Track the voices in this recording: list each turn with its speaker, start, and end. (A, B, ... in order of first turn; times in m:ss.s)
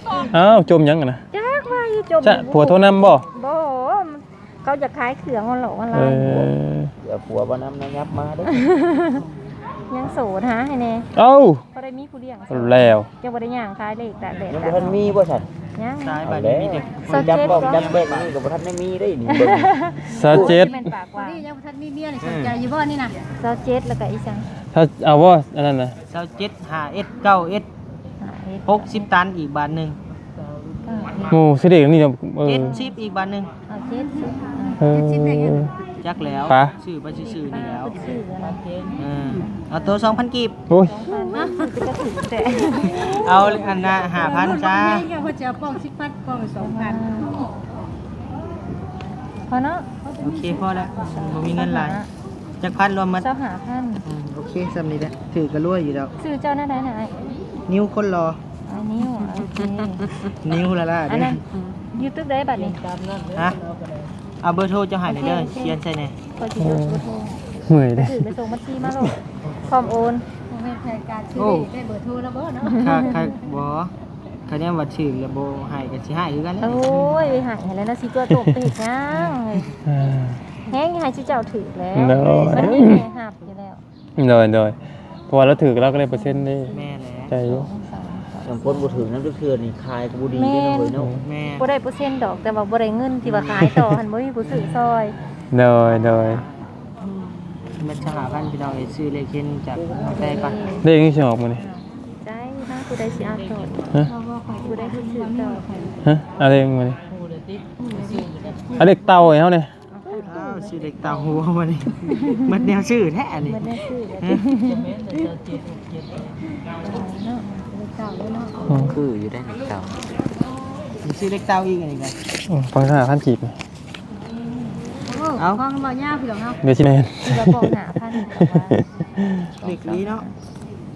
0:00.3-0:01.2 A
0:01.3-0:06.5 B
0:02.2-0:03.2 A
0:05.9-0:06.9 A
0:07.0-0:08.7 C
0:08.5-0:09.2 B
0:09.9-0:11.1 B
0:11.1-0:11.6 A
0:11.7-0:15.1 B
0:12.5-0:13.1 A
0:14.4-0:15.4 C
0:15.8-0:16.2 B
0:16.0-0:18.4 D
0:16.2-0:20.5 C
0:17.0-0:17.9 B
0:19.3-0:21.4 B
0:20.1-0:20.9 A
0:20.2-0:23.2 E
0:22.2-0:22.6 C
0:23.4-0:24.5 B
0:24.7-0:26.0 A
0:26.1-0:27.7 D
0:28.2-0:29.1 B
0:28.6-0:30.0 D
0:30.8-0:31.4 B
0:31.3-0:32.7 A
0:32.4-0:33.5 D
0:33.7-0:34.8 B
0:34.8-0:35.7 A
0:34.9-0:35.8 E
0:36.0-0:38.2 D
0:36.4-0:36.7 A
0:37.2-0:38.7 B
0:39.0-0:40.5 D
0:39.2-0:39.5 E
0:40.7-0:41.0 A
0:40.8-0:43.3 B
0:41.3-0:41.7 E
0:42.8-0:45.1 D
0:42.9-0:47.5 E
0:46.6-0:47.3 B
0:49.5-0:49.9 B
0:50.0-0:51.5 E
0:50.2-0:52.0 D
0:51.0-0:52.1 B
0:52.6-0:53.3 D
0:53.1-0:54.0 B
0:54.0-0:56.1 D
0:56.2-0:57.2 B
0:57.7-0:58.4 D
0:58.7-1:00.1 B
0:59.2-1:00.1 E
1:00.3-1:01.4 D
1:01.1-1:01.4 B
1:01.9-1:02.8 B
1:03.3-1:03.6 D
1:04.4-1:06.2 D
1:05.0-1:05.8 B
1:06.3-1:07.4 B
1:06.6-1:07.0 A
1:07.6-1:08.3 A
1:08.0-1:10.2 B
1:08.8-1:09.1 A
1:10.5-1:13.3 E
1:11.4-1:11.7 D
1:12.6-1:13.3 B
1:12.8-1:13.9 D
1:14.5-1:16.9 D
1:16.6-1:19.7 B
1:18.2-1:18.7 A
1:19.1-1:19.4 D
1:19.8-1:20.4 A
1:20.7-1:23.8 B
1:21.9-1:23.0 A
1:24.2-1:24.8 A
1:25.3-1:26.7 A
1:26.6-1:29.1 B
1:26.7-1:27.3 D
1:27.3-1:27.7 A
1:28.4-1:31.2 C
1:30.3-1:30.9 B
1:30.9-1:31.2 A
1:31.2-1:31.7 D
1:31.6-1:35.1 B
1:33.3-1:33.6 D
1:34.4-1:34.8 D
1:35.5-1:36.4 A
1:37.0-1:37.4 E
1:37.8-1:40.6 D
1:39.9-1:40.9 B
1:40.8-1:41.6 A
1:41.5-1:43.9 B
1:44.0-1:46.0 E
1:44.5-1:45.6 B
1:46.0-1:47.0 A
1:47.8-1:48.8 E
1:48.8-1:49.7 A
1:49.9-1:50.9 B
1:50.1-1:53.7 D
1:52.1-1:52.5 B
1:53.4-1:55.0 B
1:54.2-1:54.5 D
1:56.8-1:57.7 B
1:57.7-1:58.9 E
1:58.7-1:58.9 A
1:58.7-2:00.1 C
2:01.0-2:02.2 D
2:02.5-2:03.6 A
2:05.0-2:06.6 E
2:05.4-2:05.6 D
2:06.6-2:09.5 A
2:07.2-2:08.8 B
2:09.6-2:10.3 B
2:09.6-2:10.2 D